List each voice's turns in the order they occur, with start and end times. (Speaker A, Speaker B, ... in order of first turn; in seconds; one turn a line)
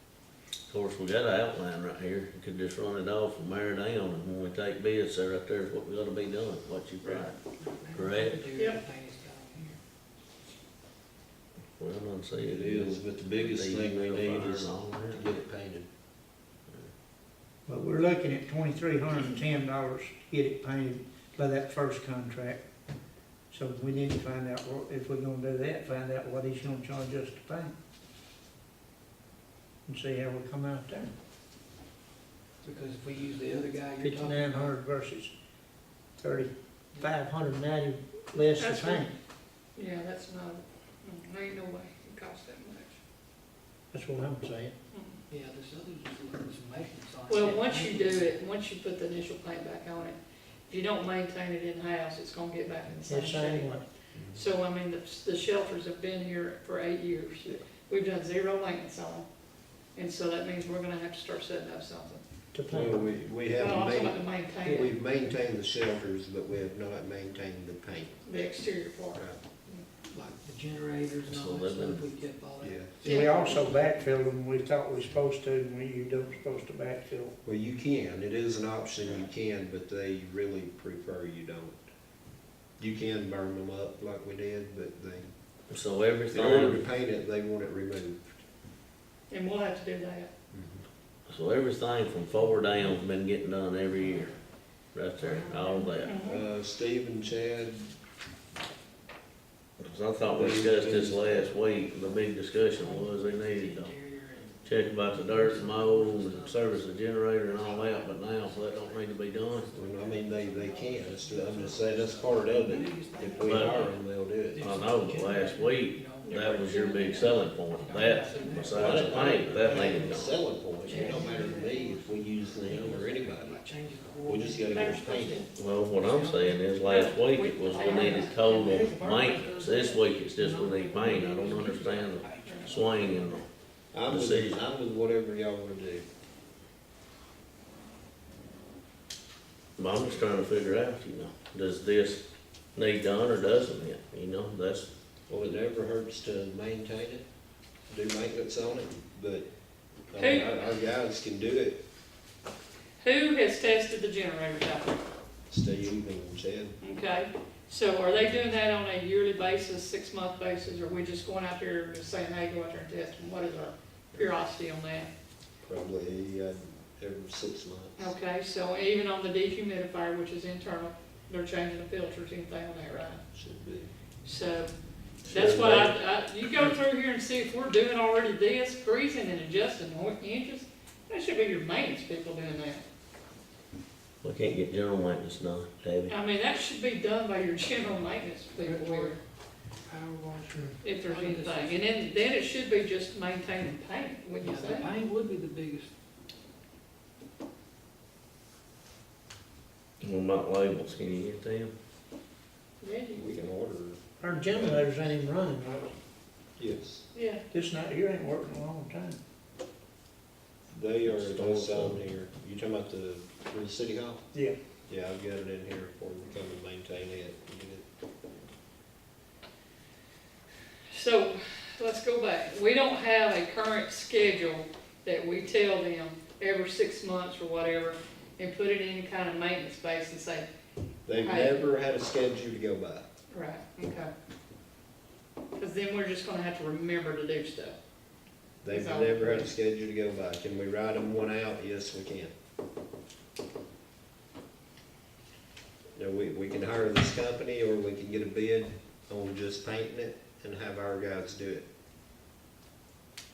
Speaker A: 0.7-7.4
Speaker B: 7.0-9.8
Speaker A: 7.9-8.4
Speaker C: 8.6-8.8
Speaker A: 11.8-15.3
Speaker D: 12.4-15.9
Speaker E: 17.7-22.6
Speaker E: 23.5-27.8
Speaker E: 29.9-31.1
Speaker B: 32.6-34.7
Speaker E: 34.0-35.3
Speaker E: 36.2-39.1
Speaker C: 38.6-39.1
Speaker C: 39.8-42.9
Speaker E: 43.9-44.7
Speaker C: 44.9-45.2
Speaker B: 45.3-48.4
Speaker C: 47.3-59.3
Speaker E: 53.1-53.9
Speaker C: 59.9-62.2
Speaker E: 62.5-63.0
Speaker D: 62.7-68.2
Speaker C: 63.6-64.9
Speaker C: 68.2-69.9
Speaker B: 70.1-73.8
Speaker A: 71.3-72.1
Speaker D: 72.6-73.0
Speaker E: 73.0-77.3
Speaker C: 73.0-73.4
Speaker D: 77.4-81.8
Speaker D: 82.8-85.3
Speaker A: 85.7-86.8
Speaker D: 86.3-88.4
Speaker C: 89.3-90.3
Speaker D: 90.5-90.8
Speaker A: 91.3-94.4
Speaker B: 93.9-94.4
Speaker A: 94.9-96.2
Speaker B: 95.2-96.1
Speaker C: 96.0-96.4
Speaker D: 96.2-97.9
Speaker A: 99.8-104.0
Speaker D: 100.3-101.8
Speaker B: 101.3-106.8
Speaker A: 104.6-109.7
Speaker B: 107.5-109.0
Speaker B: 109.6-116.4
Speaker D: 109.7-114.7
Speaker A: 113.4-113.8
Speaker A: 114.6-120.4
Speaker C: 116.2-117.4
Speaker B: 117.8-120.2
Speaker D: 118.5-123.7
Speaker B: 120.8-126.6
Speaker C: 120.9-121.2
Speaker D: 124.2-125.5
Speaker C: 124.7-125.5
Speaker A: 125.5-133.5
Speaker C: 126.9-128.4
Speaker B: 127.7-133.5
Speaker C: 132.4-132.7
Speaker D: 133.9-136.1
Speaker A: 134.1-134.6
Speaker A: 139.8-142.2
Speaker A: 142.8-144.9
Speaker D: 145.3-147.2
Speaker D: 147.9-149.5
Speaker D: 150.1-151.8
Speaker C: 150.2-150.5
Speaker C: 153.0-155.0
Speaker D: 155.5-156.8
Speaker C: 156.8-165.1
Speaker D: 165.6-168.1
Speaker C: 168.0-173.2
Speaker D: 173.3-173.9
Speaker C: 174.2-174.7
Speaker D: 175.2-176.0
Speaker C: 175.2-182.8
Speaker A: 184.2-186.1
Speaker C: 186.1-189.2
Speaker B: 188.6-189.2
Speaker B: 189.9-191.8
Speaker C: 190.8-194.9
Speaker B: 194.4-195.9
Speaker A: 200.0-201.7
Speaker C: 202.8-203.3
Speaker D: 203.2-204.9
Speaker E: 204.2-205.9
Speaker D: 206.6-207.0
Speaker C: 207.1-207.4
Speaker E: 207.5-209.2
Speaker D: 210.7-214.2
Speaker A: 211.0-212.1
Speaker D: 214.9-217.8
Speaker C: 220.9-230.5
Speaker D: 231.1-233.1
Speaker C: 231.2-231.7
Speaker C: 233.3-234.1
Speaker C: 235.6-237.8
Speaker D: 238.6-242.3
Speaker C: 238.7-239.5
Speaker D: 245.9-251.7